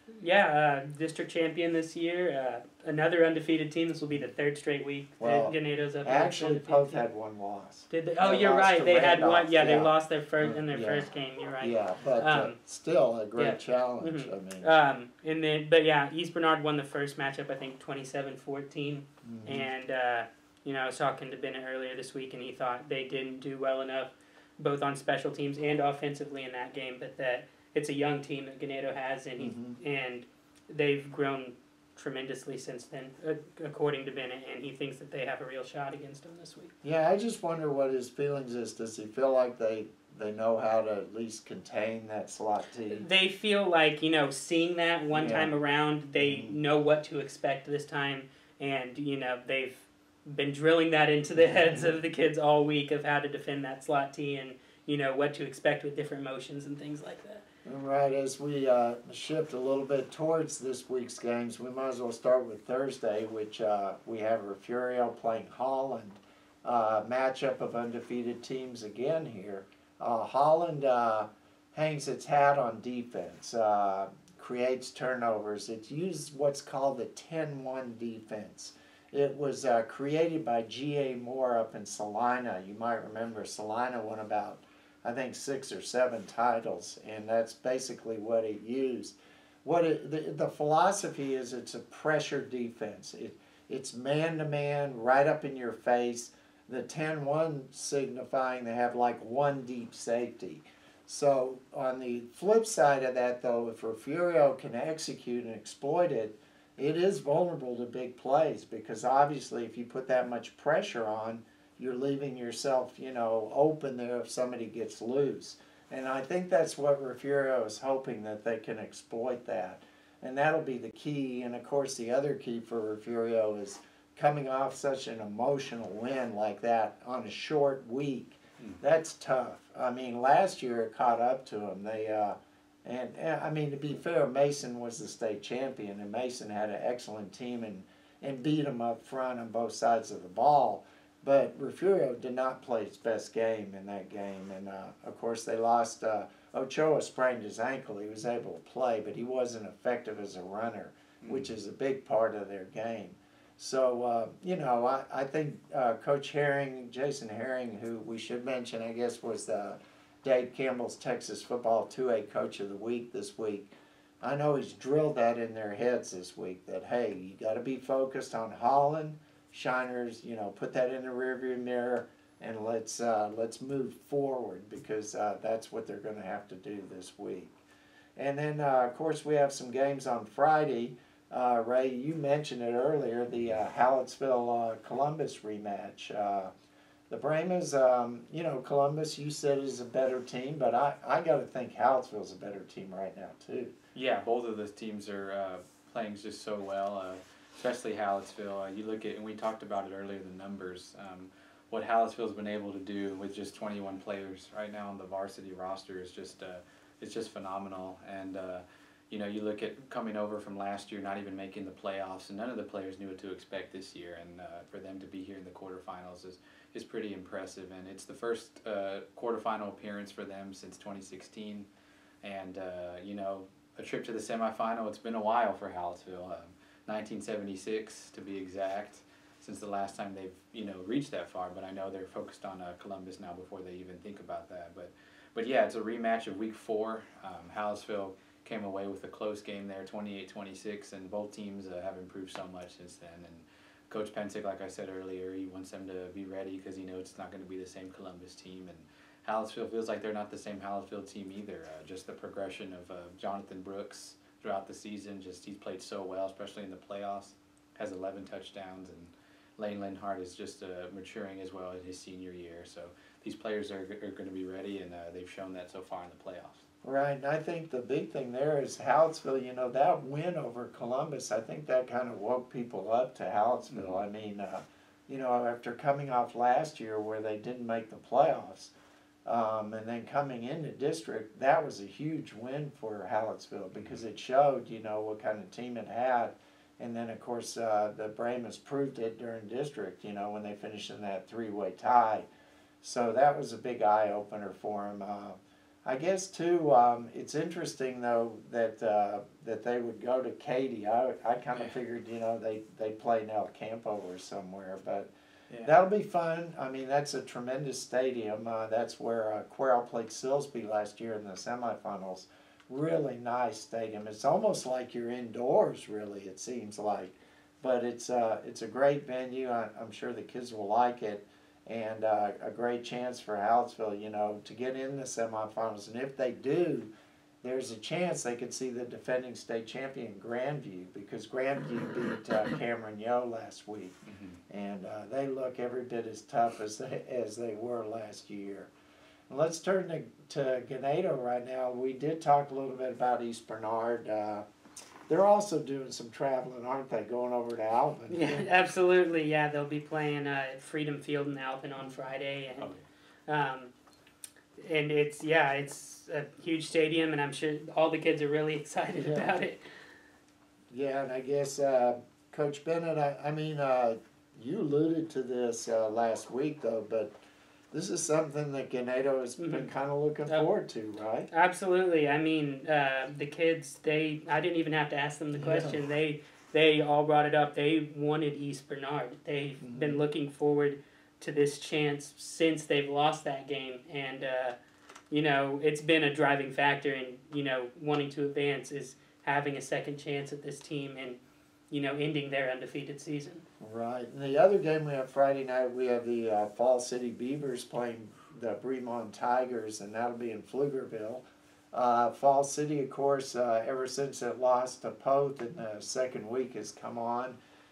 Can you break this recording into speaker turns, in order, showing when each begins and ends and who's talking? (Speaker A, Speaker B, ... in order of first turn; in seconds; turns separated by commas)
Speaker A: 0.2-7.0, Speaker B: 5.2-11.1, Speaker A: 7.9-12.6, Speaker B: 11.6-14.7, Speaker A: 13.4-36.7, Speaker B: 19.2-19.7, Speaker B: 29.4-29.8, Speaker B: 36.8-43.0, Speaker A: 42.9-57.4, Speaker B: 45.1-45.5, Speaker B: 46.2-46.6, Speaker B: 51.4-51.9, Speaker B: 57.6-163.7, Speaker C: 151.2-151.5, Speaker B: 164.2-177.6, Speaker B: 178.2-186.5, Speaker B: 187.1-193.7, Speaker C: 193.9-221.7, Speaker C: 222.2-266.6, Speaker B: 266.8-278.7, Speaker C: 273.7-274.0, Speaker B: 279.3-292.3, Speaker C: 283.7-284.0, Speaker B: 292.8-305.1, Speaker B: 305.6-326.9, Speaker B: 327.4-338.7, Speaker C: 334.1-334.4, Speaker B: 339.3-344.4, Speaker B: 345.1-348.5, Speaker A: 348.1-352.7, Speaker A: 353.3-353.7, Speaker A: 354.6-359.6, Speaker B: 358.9-359.3, Speaker B: 360.7-367.1, Speaker B: 367.7-371.3, Speaker A: 369.4-369.7, Speaker A: 371.3-384.6, Speaker B: 375.4-375.8, Speaker B: 379.6-380.0, Speaker A: 385.1-391.2, Speaker A: 391.7-393.4, Speaker B: 393.6-407.4